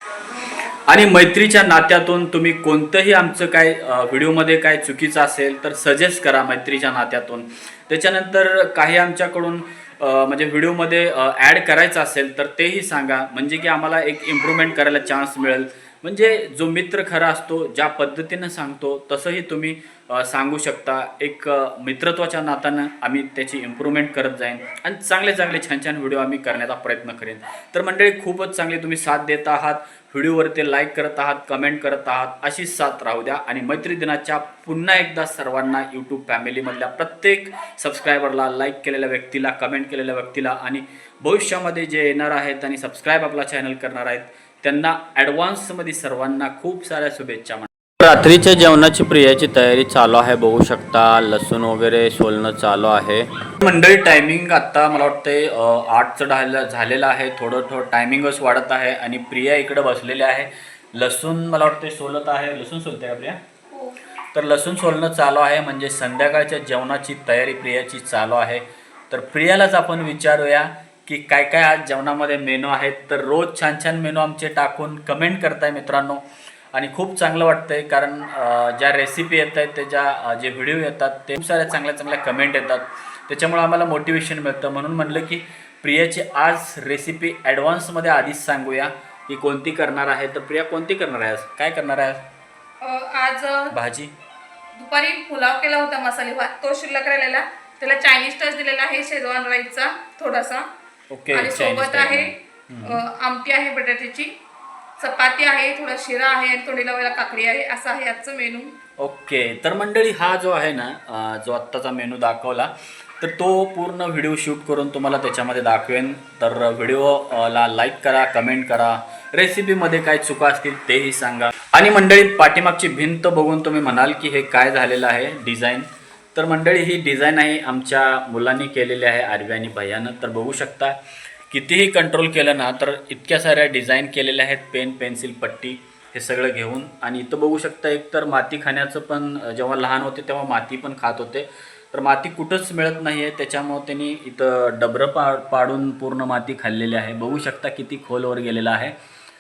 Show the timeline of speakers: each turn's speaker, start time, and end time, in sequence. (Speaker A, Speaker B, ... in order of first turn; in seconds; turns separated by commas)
Speaker A: 0.3-63.4, Speaker B: 63.7-64.0, Speaker A: 64.3-92.2, Speaker B: 92.8-93.8, Speaker A: 93.7-94.1, Speaker B: 94.8-100.7, Speaker A: 101.1-103.0, Speaker B: 101.3-104.3, Speaker B: 105.0-108.8, Speaker A: 109.0-131.0, Speaker A: 131.5-149.0